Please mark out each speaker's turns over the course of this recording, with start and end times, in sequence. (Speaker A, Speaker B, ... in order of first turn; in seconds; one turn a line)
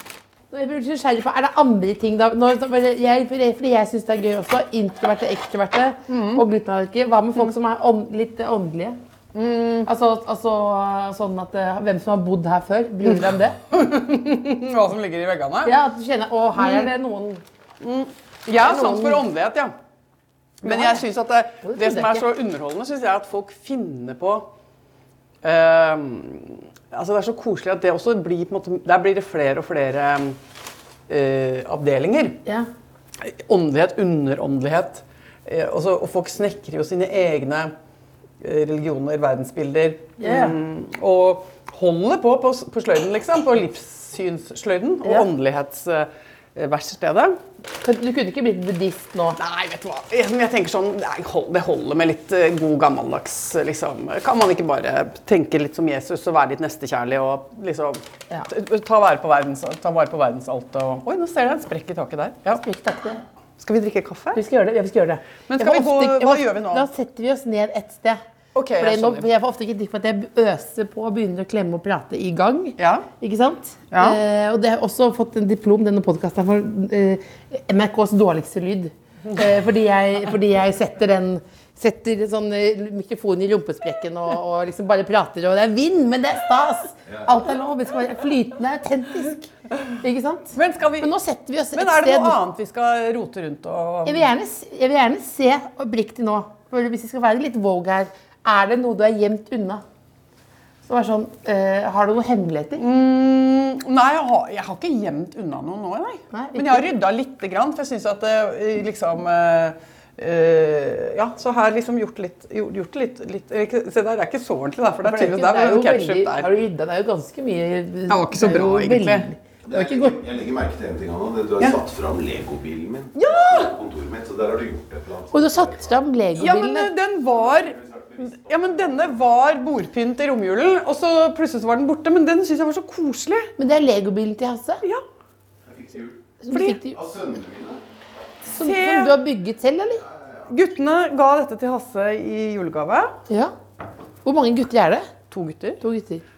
Speaker A: 0.5-9.0
Speaker B: 6.1-6.4
Speaker B: 9.3-9.9
Speaker A: 9.9-13.6
Speaker B: 13.7-15.7
Speaker A: 15.7-17.4
Speaker B: 16.6-16.9
Speaker B: 17.8-19.7
Speaker A: 18.5-19.2
Speaker B: 20.6-24.5
Speaker A: 20.6-21.0
Speaker A: 21.6-22.2
Speaker B: 25.4-30.4
Speaker B: 31.1-32.4
Speaker B: 33.2-37.7
Speaker B: 38.4-47.4
Speaker A: 40.2-40.5
Speaker A: 47.8-49.4
Speaker B: 49.4-62.6
Speaker A: 62.5-63.2
Speaker B: 63.6-64.4
Speaker A: 64.3-68.2
Speaker B: 65.5-66.9
Speaker B: 68.5-69.3
Speaker A: 68.8-89.5
Speaker B: 72.8-73.1
Speaker B: 73.9-74.2
Speaker A: 90.0-92.4
Speaker B: 90.5-91.1
Speaker B: 91.7-94.3
Speaker A: 94.0-99.8
Speaker A: 100.8-102.8
Speaker B: 102.8-116.5
Speaker A: 106.3-106.9
Speaker A: 115.0-120.2
Speaker B: 118.1-119.3
Speaker C: 119.7-125.9
Speaker B: 123.1-123.7
Speaker A: 125.3-126.9
Speaker B: 126.4-133.5
Speaker C: 127.5-128.8
Speaker A: 133.6-134.8
Speaker C: 135.7-136.2
Speaker A: 136.4-137.0
Speaker B: 136.5-136.8
Speaker C: 136.9-137.8
Speaker B: 138.5-139.2
Speaker A: 138.5-140.0
Speaker B: 140.5-143.2
Speaker A: 144.2-145.1
Speaker B: 145.3-145.8
Speaker A: 145.8-146.2